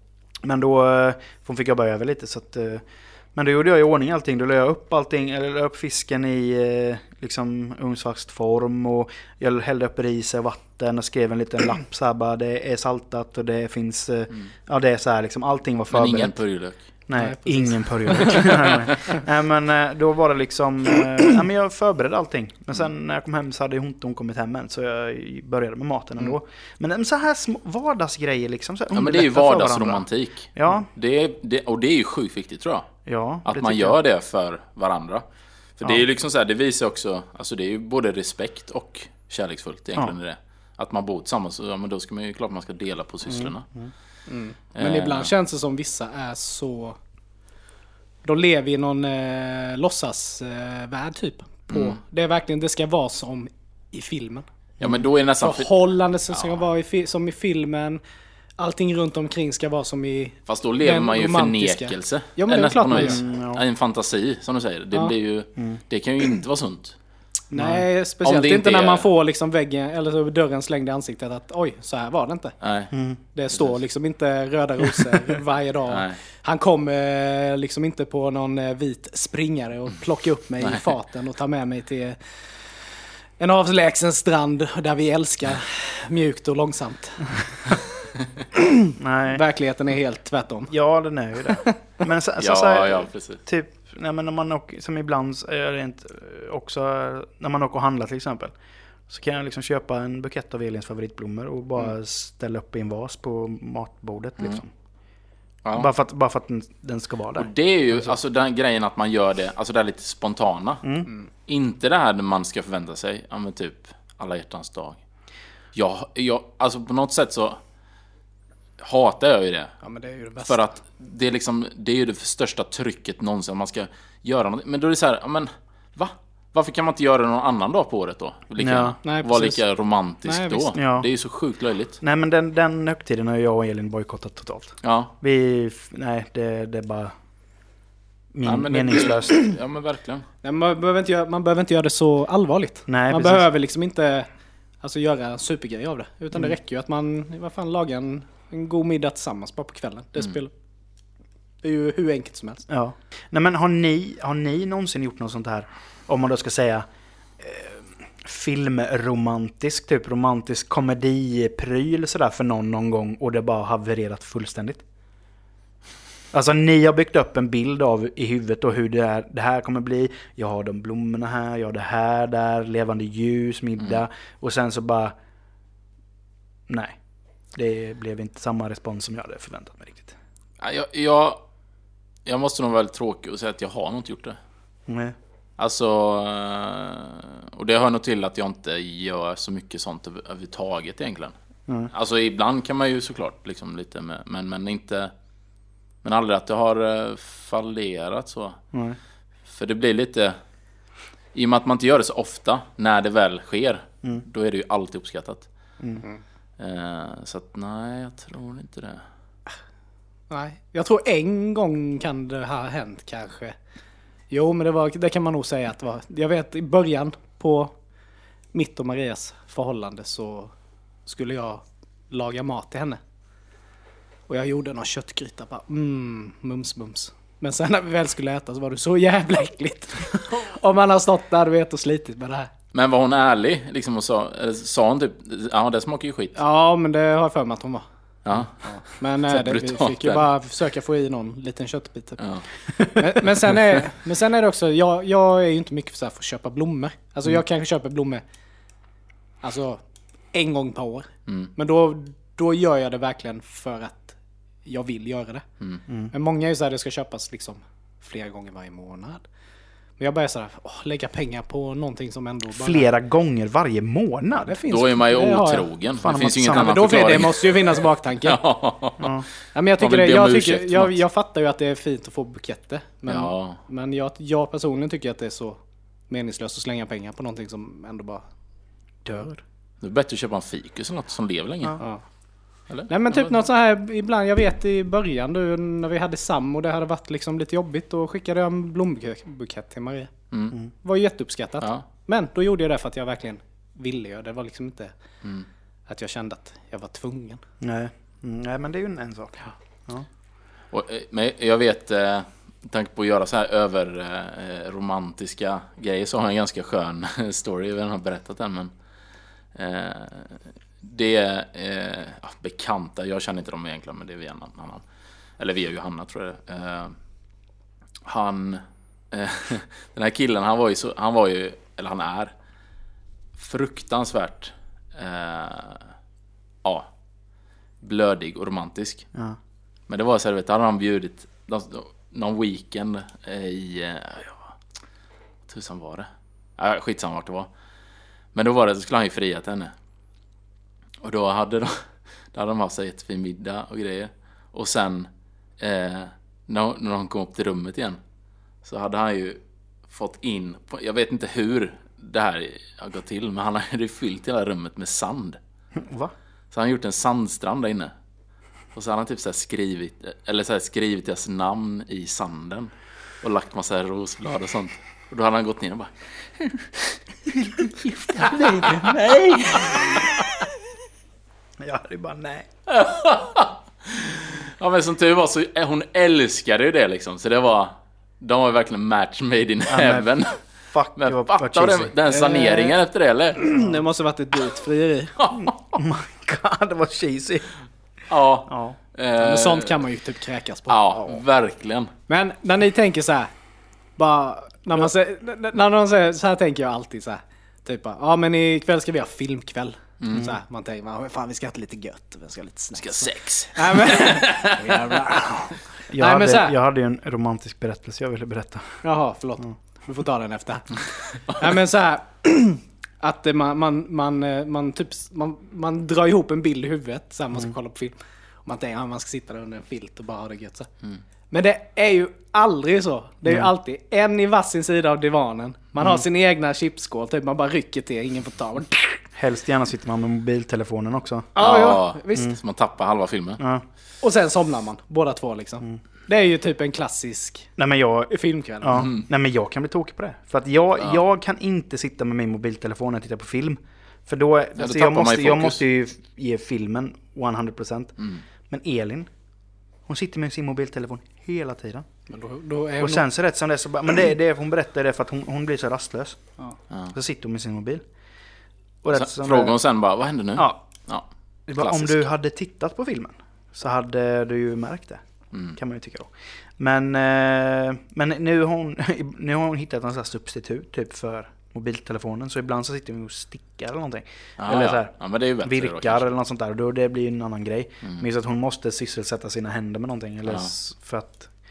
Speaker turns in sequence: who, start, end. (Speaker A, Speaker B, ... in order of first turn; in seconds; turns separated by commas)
Speaker A: 0.4-16.4, Speaker B: 15.9-16.8, Speaker A: 17.1-30.9, Speaker C: 17.1-18.7, Speaker B: 28.9-35.2, Speaker A: 33.0-34.0, Speaker B: 35.8-43.7, Speaker A: 43.3-43.9, Speaker C: 44.3-47.0, Speaker B: 44.7-45.3, Speaker C: 48.2-54.5, Speaker B: 51.7-52.0, Speaker B: 54.8-55.7, Speaker C: 55.4-58.0, Speaker B: 56.3-56.6, Speaker C: 58.6-63.2, Speaker B: 60.5-66.9, Speaker A: 62.9-63.6, Speaker A: 67.5-67.8, Speaker C: 67.5-72.5, Speaker B: 68.2-69.0, Speaker B: 72.6-72.9, Speaker A: 72.9-73.2, Speaker C: 73.3-87.8, Speaker B: 75.9-76.2, Speaker A: 89.0-89.4, Speaker C: 89.3-90.7, Speaker A: 90.7-98.5, Speaker B: 92.4-93.4, Speaker A: 99.1-104.7, Speaker A: 105.7-108.1, Speaker B: 107.3-115.0, Speaker A: 110.8-111.1, Speaker B: 115.7-117.6, Speaker B: 118.8-119.7, Speaker C: 119.8-120.7, Speaker B: 120.4-132.0, Speaker A: 128.6-129.0, Speaker C: 129.0-129.6, Speaker C: 130.2-130.7, Speaker A: 130.7-131.1, Speaker A: 132.0-137.1, Speaker B: 134.8-135.1, Speaker A: 138.3-139.4, Speaker B: 138.4-140.3, Speaker C: 140.4-144.3, Speaker A: 142.9-143.4, Speaker C: 144.8-150.5, Speaker C: 151.6-152.7, Speaker A: 152.7-156.8, Speaker A: 157.4-164.8, Speaker A: 166.3-175.1, Speaker A: 176.7-177.0, Speaker A: 177.5-180.1, Speaker B: 180.6-181.4, Speaker B: 182.2-184.4, Speaker A: 184.9-185.1, Speaker B: 185.6-191.3, Speaker B: 191.9-195.1, Speaker B: 196.0-198.6, Speaker A: 198.7-199.0, Speaker B: 199.5-200.3, Speaker B: 201.3-205.5, Speaker B: 206.6-209.0, Speaker C: 210.3-213.6, Speaker C: 214.3-217.7, Speaker C: 218.5-220.5, Speaker C: 221.1-223.0, Speaker C: 224.3-232.5, Speaker B: 232.7-236.3, Speaker C: 236.3-237.8, Speaker B: 238.2-240.2, Speaker C: 238.6-242.2, Speaker B: 242.2-242.9, Speaker C: 242.8-248.2, Speaker C: 249.4-255.4, Speaker B: 251.3-251.5, Speaker C: 256.1-259.2, Speaker C: 260.0-262.9, Speaker A: 262.5-264.6, Speaker C: 264.4-265.7, Speaker B: 264.7-269.2, Speaker A: 266.0-266.8, Speaker C: 266.2-268.4, Speaker A: 269.0-269.2, Speaker C: 269.5-278.2, Speaker B: 269.8-270.9, Speaker B: 273.1-273.6, Speaker C: 279.1-279.4, Speaker B: 279.8-281.9, Speaker C: 281.8-282.0, Speaker C: 282.9-290.1, Speaker B: 290.3-290.6, Speaker C: 290.7-294.9, Speaker C: 295.9-297.4, Speaker A: 297.6-300.1, Speaker B: 300.7-308.7, Speaker B: 309.5-314.8, Speaker B: 315.4-316.9, Speaker B: 318.0-322.3, Speaker B: 323.4-325.9, Speaker B: 327.8-329.1, Speaker B: 329.9-334.5, Speaker B: 335.5-337.5, Speaker B: 338.3-339.7, Speaker B: 341.0-341.8, Speaker B: 342.3-348.0, Speaker B: 348.6-355.4, Speaker A: 355.8-356.1, Speaker B: 356.5-357.9, Speaker B: 358.7-362.7, Speaker B: 363.2-366.8, Speaker A: 367.4-370.0, Speaker B: 367.8-370.2, Speaker A: 371.6-372.5, Speaker B: 372.7-380.4, Speaker A: 379.7-380.1, Speaker A: 380.7-382.6, Speaker B: 381.0-383.4, Speaker C: 383.4-385.1, Speaker B: 385.2-385.7, Speaker A: 385.4-387.5, Speaker B: 388.1-389.8, Speaker A: 388.5-388.8, Speaker C: 389.2-391.2, Speaker B: 390.7-391.9, Speaker C: 392.1-393.3, Speaker C: 394.0-406.5, Speaker B: 400.0-400.3, Speaker B: 402.8-405.2, Speaker A: 405.9-408.8, Speaker C: 408.8-420.7, Speaker C: 421.3-429.0, Speaker A: 425.8-426.0, Speaker A: 429.1-431.3, Speaker C: 431.3-432.3, Speaker B: 431.4-433.4, Speaker A: 433.4-433.6, Speaker C: 434.0-437.5, Speaker A: 437.6-449.1, Speaker C: 438.1-438.9, Speaker B: 438.7-439.1, Speaker B: 444.6-445.6, Speaker B: 448.0-448.2, Speaker A: 449.9-451.9, Speaker C: 452.1-453.0, Speaker A: 452.8-456.4, Speaker A: 456.9-457.8, Speaker A: 458.8-459.6, Speaker B: 458.9-462.0, Speaker A: 460.4-460.8, Speaker A: 461.5-481.3, Speaker B: 474.4-476.1, Speaker B: 480.3-480.5